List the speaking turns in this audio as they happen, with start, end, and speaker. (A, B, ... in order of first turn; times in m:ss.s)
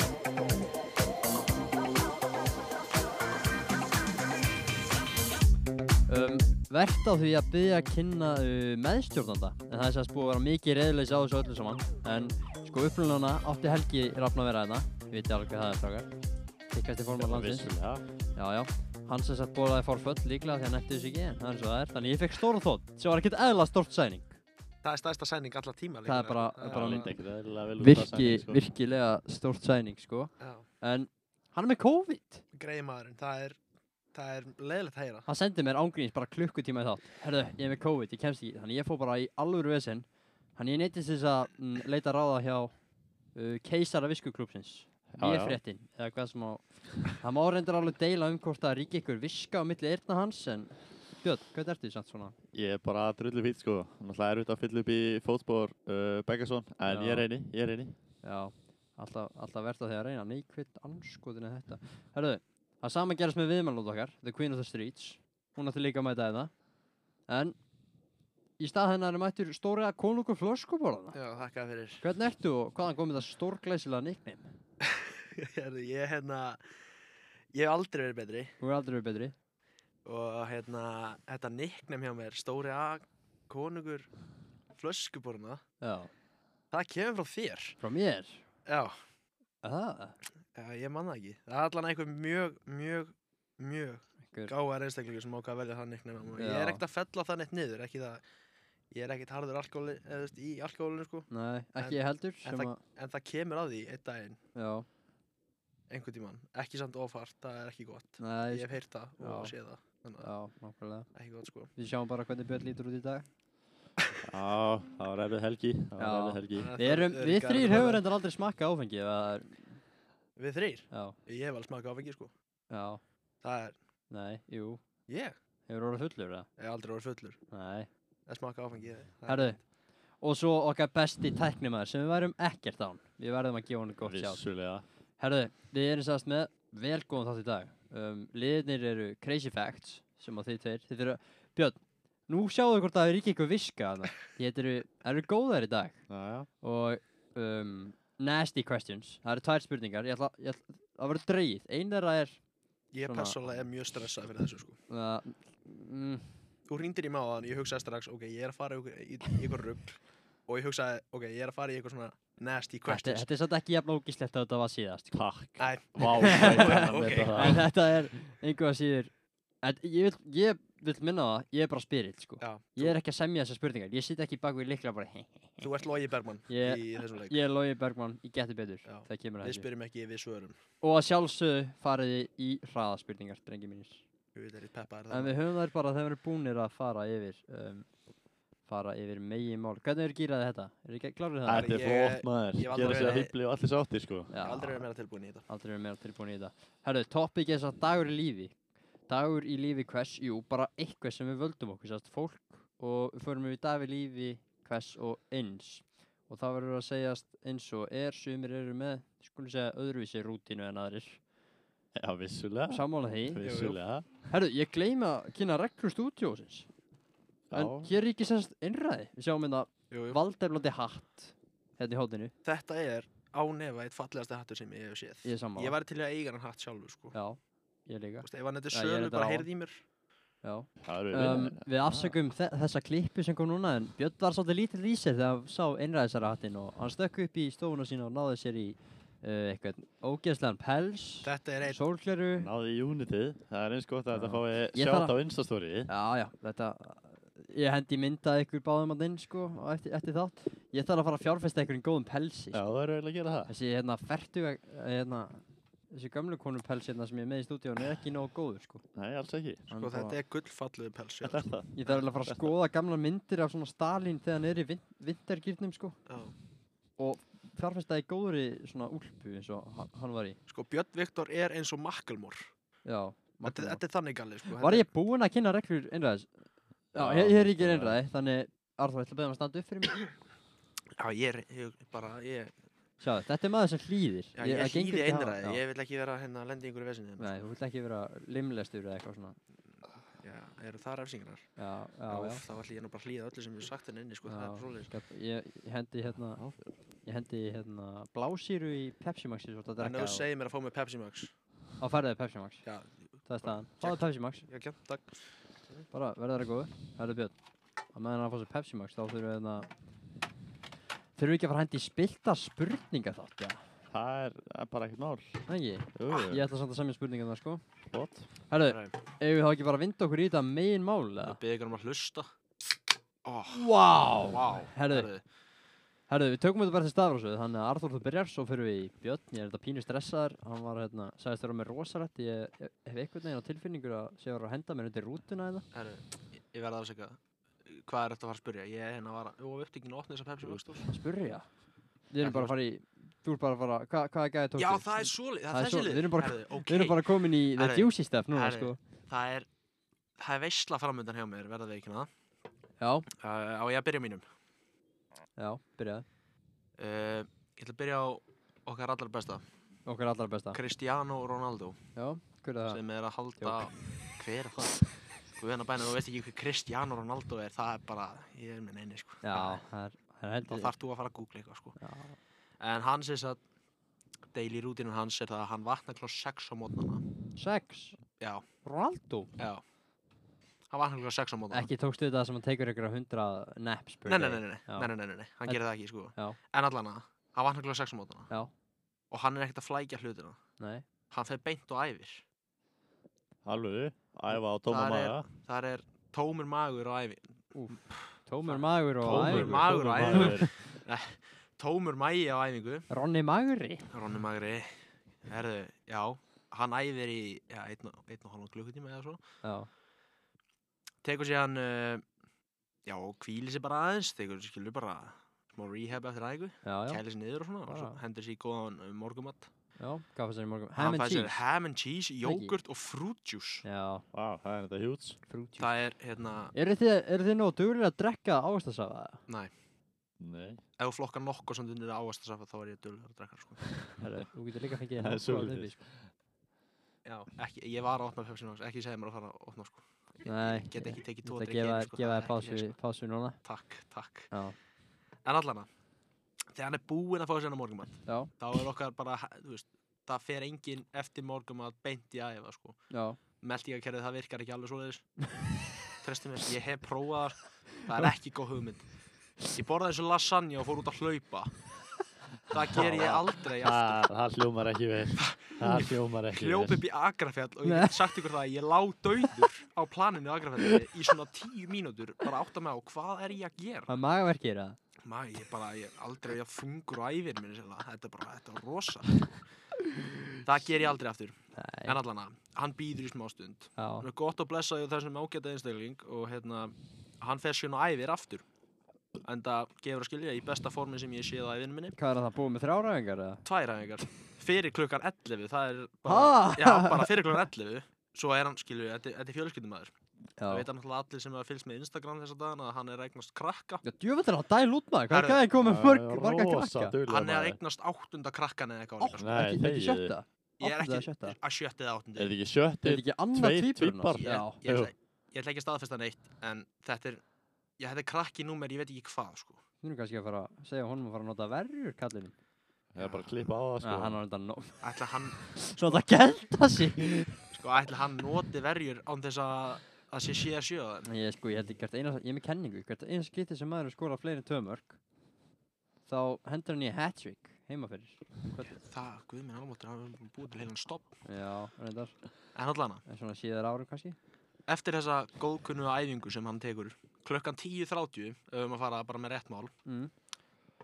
0:06.1-0:16.1 A
0:16.7-0:17.7 A
0:17.2-0:18.0 B
0:18.3-0:24.4 A
0:24.8-0:27.1 C
0:26.0-0:27.1 A
0:26.7-0:28.6 B
0:27.8-0:32.4 A
0:30.4-0:30.6 C
0:32.5-0:33.6 C
0:34.1-0:35.3 C
0:35.3-0:42.7 A
0:43.3-0:52.3 A
0:45.1-0:45.6 B
0:52.5-0:57.9 B
0:56.9-0:57.3 A
0:58.2-1:06.5 A
1:07.3-1:07.6 A
1:08.6-1:11.2 A
1:11.1-1:12.0 C
1:12.0-1:14.5 A
1:14.8-1:16.6 C
1:17.5-1:18.6 C
1:18.6-1:19.3 A
1:20.0-1:24.1 C
1:24.8-1:25.6 C
1:25.8-1:26.1 A
1:26.7-1:27.8 C
1:27.8-1:28.4 A
1:28.7-1:29.0 C
1:29.6-1:30.2 A
1:30.5-1:38.2 C
1:36.4-1:36.8 A
1:38.9-1:41.3 C
1:41.3-1:42.8 A
1:41.8-1:44.4 C
1:44.6-1:44.8 A
1:45.9-1:50.3 C
1:48.2-1:49.5 A
1:50.2-1:51.1 A
1:51.1-1:51.7 C
1:51.8-1:53.2 A
1:54.2-1:56.7 B
1:56.0-1:59.8 A
1:56.5-1:58.0 C
2:00.4-2:02.3 C
2:00.9-2:01.2 A
2:02.7-2:03.0 A
2:03.4-2:03.7 C
2:04.1-2:04.8 A
2:05.1-2:05.3 C
2:05.7-2:06.5 A
2:06.6-2:07.4 C
2:07.5-2:07.9 A
2:08.3-2:09.6 C
2:09.3-2:09.6 A
2:10.2-2:14.4 A
2:14.0-2:14.8 B
2:15.2-2:26.0 A
2:26.1-2:26.5 B
2:26.6-2:32.4 A
2:32.9-2:34.8 C
2:33.1-2:33.4 A
2:34.9-2:36.3 A
2:36.7-2:43.2 C
2:42.8-2:45.2 A
2:45.1-2:47.6 B
2:45.6-2:47.6 C
2:46.2-2:55.6 A
2:52.4-2:53.0 C
2:55.6-2:57.4 C
2:56.5-2:59.6 A
2:58.8-3:00.6 C
3:00.8-3:04.0 A
3:04.3-3:05.4 C
3:05.1-3:07.8 A
3:08.7-3:11.8 A
3:11.4-3:14.3 B
3:11.5-3:13.3 C
3:14.3-3:14.8 A
3:14.4-3:15.4 C
3:15.5-3:18.5 A
3:19.1-3:31.2 A
3:31.9-3:34.1 B
3:32.7-3:33.4 A
3:33.4-3:33.8 C
3:34.2-3:36.7 A
3:37.5-3:37.9 B
3:37.5-3:42.3 A
3:39.9-3:40.2 C
3:42.4-3:47.1 C
3:45.2-3:45.8 A
3:47.1-3:49.4 A
3:48.2-3:49.8 C
3:50.4-4:02.5 A
3:50.8-3:52.2 B
4:01.2-4:01.8 C
4:02.4-4:05.9 B
4:04.1-4:05.1 A
4:05.9-4:12.6 A
4:12.5-4:13.5 B
4:13.5-4:18.8 A
4:18.9-4:19.7 B
4:19.7-4:20.2 A
4:19.8-4:21.5 C
4:21.2-4:21.7 B
4:21.7-4:26.0 A
4:26.1-4:26.3 C
4:27.0-4:30.4 A
4:30.5-4:32.5 C
4:32.8-4:33.8 A
4:33.4-4:34.9 C
4:34.6-4:36.3 A
4:36.9-4:38.0 B
4:36.9-4:40.0 A
4:41.0-4:42.5 C
4:43.0-4:45.6 A
4:44.4-4:47.4 C
4:47.2-4:49.4 A
4:50.2-4:51.4 C
4:51.6-4:52.4 A
4:52.1-4:54.9 C
4:54.2-4:56.4 A
4:56.4-4:56.7 B
4:57.0-5:00.3 A
4:59.8-5:01.3 C
5:01.8-5:02.6 A
5:02.6-5:05.2 C
5:03.3-5:04.4 A
5:05.9-5:07.3 A
5:07.9-5:09.7 A
5:11.2-5:13.6 A
5:13.9-5:15.4 B
5:15.5-5:17.6 A
5:15.9-5:16.4 B
5:17.9-5:18.3 B
5:18.5-5:21.4 A
5:18.7-5:18.9 C
5:21.2-5:22.3 C
5:23.2-5:25.2 C
5:23.5-5:25.1 A
5:26.1-5:35.6 A
5:35.7-5:40.9 C
5:40.9-5:41.4 A
5:42.1-5:48.8 A
5:42.2-5:42.5 C
5:44.6-5:49.5 C
5:50.2-5:52.1 C
5:52.8-5:53.1 A
5:53.1-5:54.2 C
5:55.4-5:56.0 A
5:56.8-5:59.4 C
5:59.8-6:00.6 A
6:00.5-6:01.8 C
6:02.0-6:02.8 A
6:02.7-6:09.6 C
6:03.4-6:03.7 A
6:09.2-6:10.7 A
6:10.5-6:11.8 C
6:11.8-6:12.2 A
6:12.6-6:13.4 C
6:14.3-6:17.0 C
6:17.4-6:18.0 A
6:18.2-6:18.4 C
6:18.6-6:19.3 A
6:20.7-6:21.7 C
6:21.5-6:24.9 A
6:24.0-6:28.3 C
6:29.1-6:30.4 C
6:30.6-6:30.8 A
6:31.1-6:32.2 C
6:33.4-6:35.2 B
6:34.7-6:37.3 C
6:37.5-6:40.5 A
6:37.9-6:42.9 C
6:39.0-6:40.6 B
6:42.9-6:43.9 A
6:43.9-6:44.7 C
6:45.2-6:49.2 C
6:49.4-6:49.7 A
6:51.0-6:52.0 C
6:52.8-6:59.5 C
6:56.6-6:57.0 A
6:57.7-6:58.0 A
6:59.8-7:01.4 A
7:00.8-7:03.6 C
7:02.2-7:02.5 A
7:03.6-7:04.0 A
7:04.1-7:05.2 B
7:05.3-7:05.7 A
7:05.6-7:06.5 C
7:06.5-7:09.2 A
7:10.2-7:10.6 B
7:10.8-7:13.8 C
7:14.0-7:15.8 A
7:15.0-7:15.9 B
7:17.0-7:22.7 C
7:20.2-7:23.4 A
7:23.4-7:24.3 C
7:25.2-7:25.7 C
7:26.5-7:32.8 C
7:28.0-7:28.3 A
7:32.9-7:33.2 A
7:33.4-7:35.0 C
7:36.0-7:38.8 C
7:39.4-7:41.5 C
7:42.5-7:44.1 C
7:42.7-7:46.8 B
7:45.2-7:53.9 C
7:47.6-7:48.0 A
7:53.9-7:54.8 A
7:55.0-7:59.4 C
8:00.4-8:08.4 C
8:01.6-8:02.0 A
8:03.8-8:04.1 A
8:09.2-8:12.0 C
8:12.0-8:13.4 A
8:13.4-8:19.9 C
8:16.0-8:17.3 A
8:20.4-8:20.7 A
8:20.5-8:23.8 C
8:23.8-8:27.0 A
8:25.1-8:25.4 C
8:25.6-8:27.6 B
8:27.1-8:29.4 C
8:29.0-8:31.4 A
8:29.2-8:30.1 B
8:30.6-8:32.3 C
8:32.2-8:34.9 B
8:32.8-8:34.6 A
8:34.2-8:37.2 C
8:37.8-8:39.6 C
8:39.8-8:42.3 A
8:42.9-8:44.2 B
8:43.0-8:43.3 C
8:43.8-8:44.8 A
8:44.8-8:46.0 C
8:45.5-8:47.3 A
8:47.5-8:51.1 C
8:51.1-8:55.0 A
8:56.1-8:58.2 A
8:58.6-9:01.1 C
9:01.2-9:02.2 A
9:02.5-9:03.0 C
9:03.0-9:04.2 A
9:04.7-9:09.7 C
9:09.8-9:10.1 A